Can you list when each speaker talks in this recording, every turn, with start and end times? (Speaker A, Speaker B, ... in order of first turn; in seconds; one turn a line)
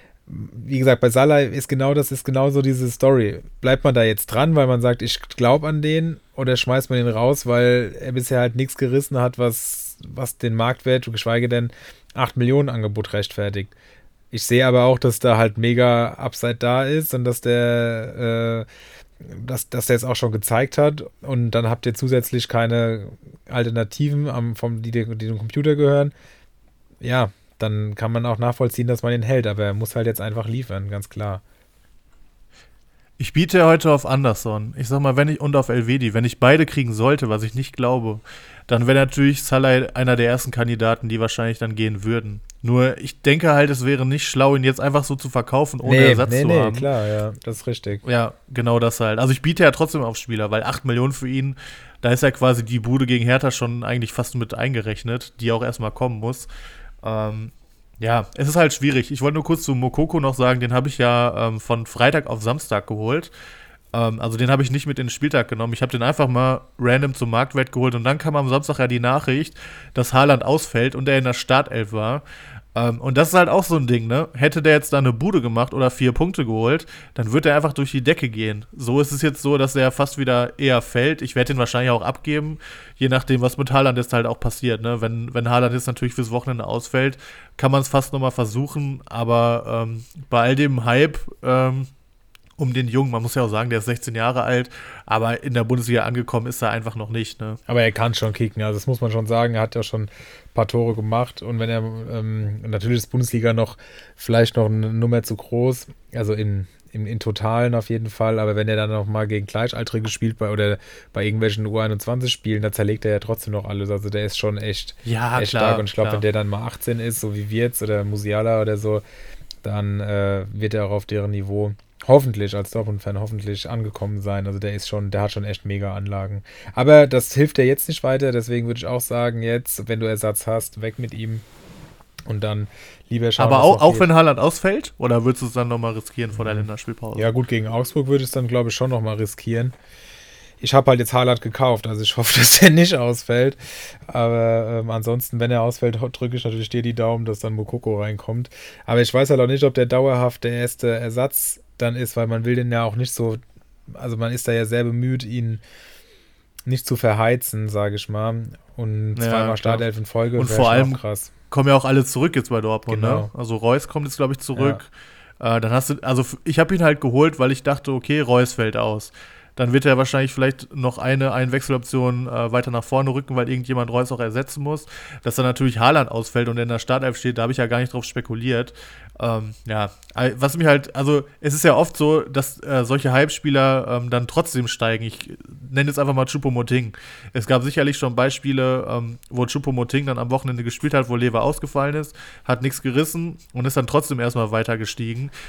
Speaker A: 0.3-13.8
Speaker A: 14.3-18.7
Speaker A: 19.2-26.1
Speaker A: 27.0-31.4
Speaker B: 33.2-46.9
Speaker A: 45.8-48.0
Speaker B: 48.0-56.5
Speaker B: 57.0-63.3
Speaker B: 63.9-72.2
Speaker B: 72.8-91.9
Speaker B: 92.6-97.6
Speaker A: 97.7-119.0
Speaker B: 115.0-116.2
Speaker A: 119.6-131.5
Speaker A: 132.3-134.1
Speaker B: 133.4-137.3
Speaker A: 136.4-139.8
Speaker A: 140.6-155.6
Speaker A: 156.7-161.3
Speaker B: 159.2-159.8
Speaker B: 160.4-161.0
Speaker B: 161.5-164.9
Speaker A: 162.9-163.3
Speaker A: 164.6-164.8
Speaker B: 165.4-195.3